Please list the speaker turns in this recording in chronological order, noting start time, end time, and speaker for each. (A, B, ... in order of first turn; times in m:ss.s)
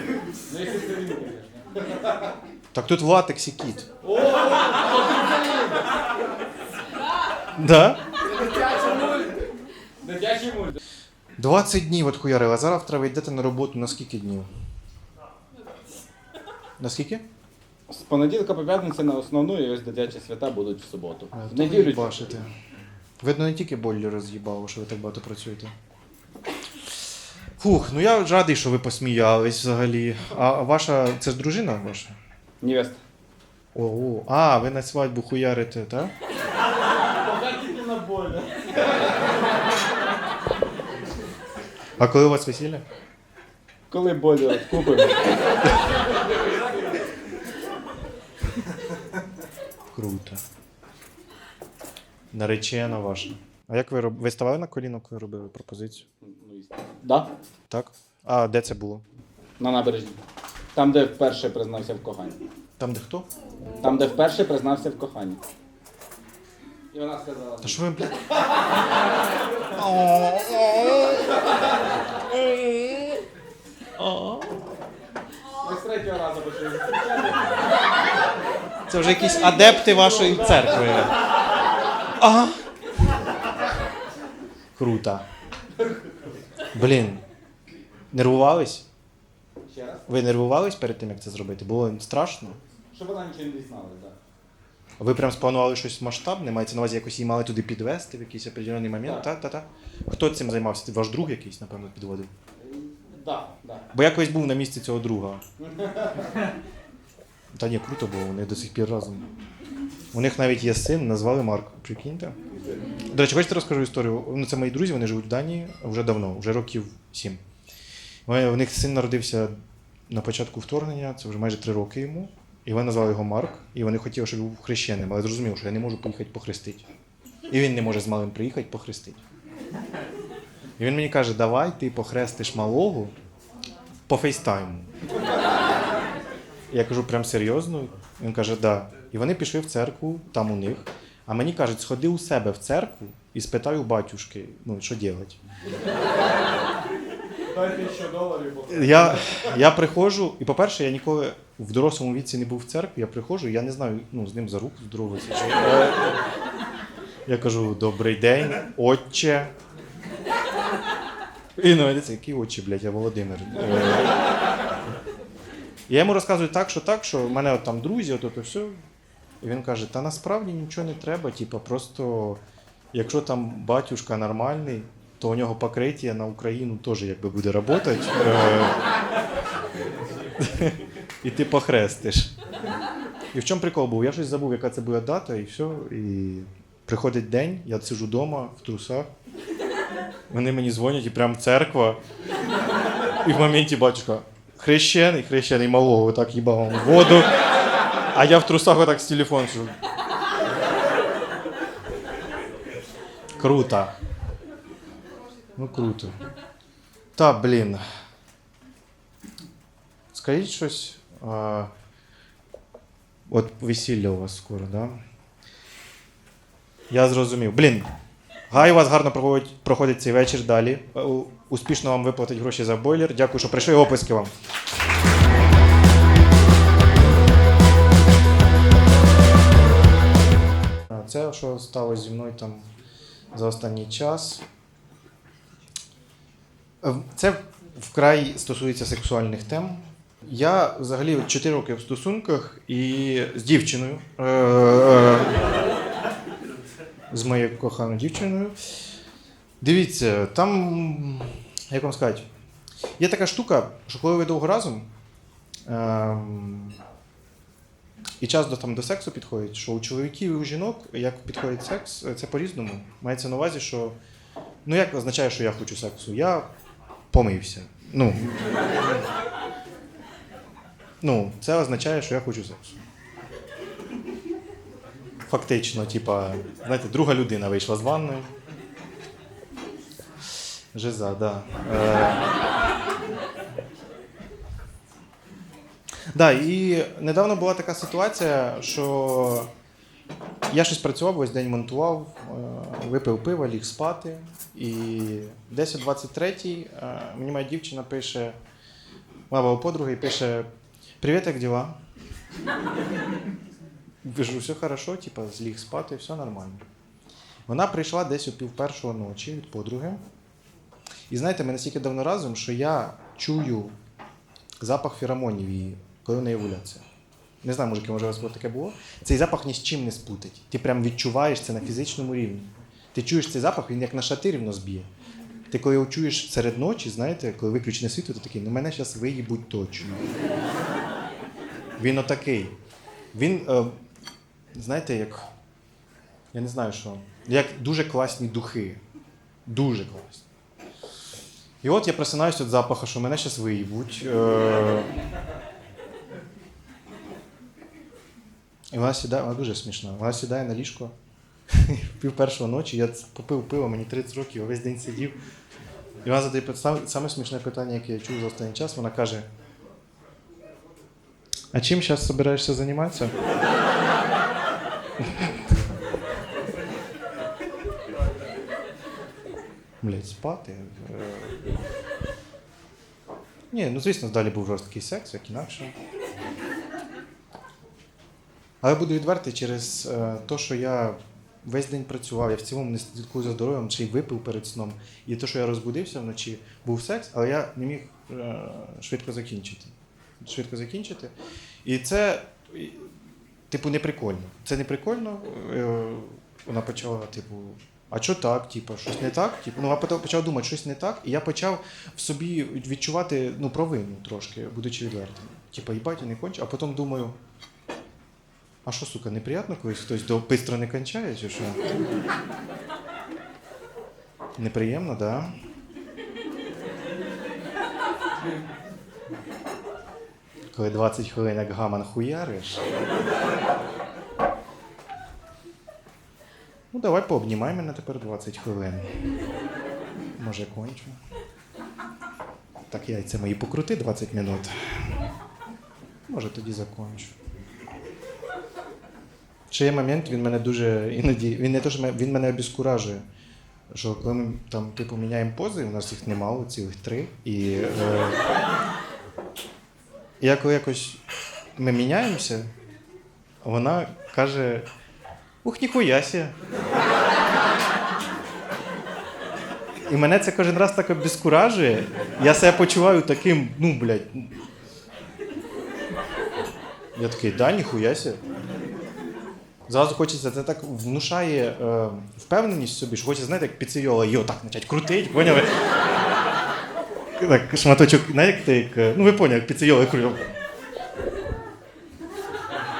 0:00.4-0:02.4 A
0:02.7-0:03.9 B
0:04.0-0:05.9 A
0:07.6-0:08.0 B
0:08.6-0:09.2 A
0:10.0-0:10.8 A
0:11.4-0:14.5 B
0:16.8-0:17.2 B
0:17.9-0:22.4 A
0:21.3-0:22.5 B
0:23.2-0:25.7 B
0:27.6-0:32.2 B
0:32.6-0:33.0 A
0:33.8-0:36.1 B
0:37.2-0:39.2 A
0:42.0-0:42.8 B
0:43.9-0:45.8 A
0:49.9-0:50.4 B
0:52.3-0:56.1 B
0:56.2-0:57.3 A
0:57.7-0:59.0 B
0:59.6-1:00.2 A
1:00.8-1:02.4 A
1:02.8-1:03.3 B
1:03.8-1:05.4 A
1:06.9-1:07.8 A
1:07.6-1:08.3 B
1:09.7-1:11.4 B
1:12.3-1:13.2 B
1:14.0-1:14.6 B
1:15.6-1:17.6 A
1:18.9-1:21.2 B
1:19.2-1:21.1 A
1:22.2-1:22.6 B
1:24.8-1:25.2 B
1:26.7-1:27.2 B
1:28.1-1:28.9 B
1:29.7-1:30.1 A
1:30.1-1:32.6 B
1:32.9-1:34.2 A
1:35.0-1:42.3 B
1:39.0-1:39.3 A
1:42.6-1:43.9 A
1:43.9-1:45.4 B
1:45.6-1:46.4 A
1:47.5-1:49.3 B
1:50.1-1:52.4 B
1:53.1-1:57.4 B
1:58.3-1:59.5 B
2:00.1-2:06.8 B
2:07.5-2:09.2 B
2:10.8-2:13.1 B
2:14.1-2:14.9 B
2:16.7-2:25.4 B
2:27.5-2:29.6 A
2:28.7-2:36.2 B
2:37.3-2:39.5 B
2:41.6-2:44.2 B
2:45.9-2:48.8 B
2:49.4-2:52.4 B
2:52.9-2:58.7 B
3:00.4-3:02.3 B
3:03.3-3:09.1 B
3:10.3-3:12.0 B
3:13.2-3:17.3 B
3:18.1-3:19.7 B
3:23.4-3:23.9 B
3:25.6-3:26.2 B
3:27.2-3:27.8 B
3:30.1-3:31.7 B
3:33.3-3:35.0 B
3:36.9-3:37.9 B
3:38.5-3:44.3 B
3:50.9-3:52.7 B
3:53.3-3:54.4 B
3:56.8-4:05.4 B
4:07.1-4:08.6 B
4:09.6-4:12.3 B
4:13.0-4:14.9 B
4:15.7-4:16.8 B
4:18.2-4:24.0 B
4:24.6-4:26.4 B
4:27.1-4:28.9 B
4:31.0-4:32.8 B
4:35.3-4:38.3 B
4:40.7-4:42.2 B
4:46.1-4:49.5 B
4:50.5-4:58.4 B
4:59.3-5:00.5 B
5:01.0-5:01.8 B
5:04.0-5:06.6 B
5:07.5-5:10.0 B
5:11.1-5:13.7 B
5:14.6-5:16.8 B
5:17.4-5:24.9 B
5:25.5-5:30.0 B
5:31.8-5:32.5 B
5:33.1-5:33.7 B
5:34.6-5:35.3 B
5:36.3-5:38.8 B
5:39.5-5:40.2 B
5:41.6-5:44.9 B
5:48.7-5:50.9 B
5:51.5-5:55.2 B
5:56.0-5:59.3 B
6:01.5-6:03.1 B
6:05.0-6:05.4 B
6:09.8-6:11.4 B
6:13.5-6:15.7 B
6:18.6-6:31.1 B
6:31.6-6:32.9 B
6:33.5-6:47.2 B
6:48.6-6:51.6 B
6:54.4-6:55.3 B
7:00.5-7:02.6 B
7:06.7-7:08.9 B
7:10.2-7:11.0 B
7:12.7-7:15.0 B
7:16.1-7:17.1 B
7:19.5-7:23.0 B
7:23.7-7:28.2 B
7:30.2-7:31.0 B
7:31.6-7:32.5 B
7:33.4-7:34.7 B
7:35.4-7:36.3 B
7:39.9-7:44.3 B
7:47.0-7:48.2 B
7:49.7-7:55.5 B
7:57.2-8:00.3 B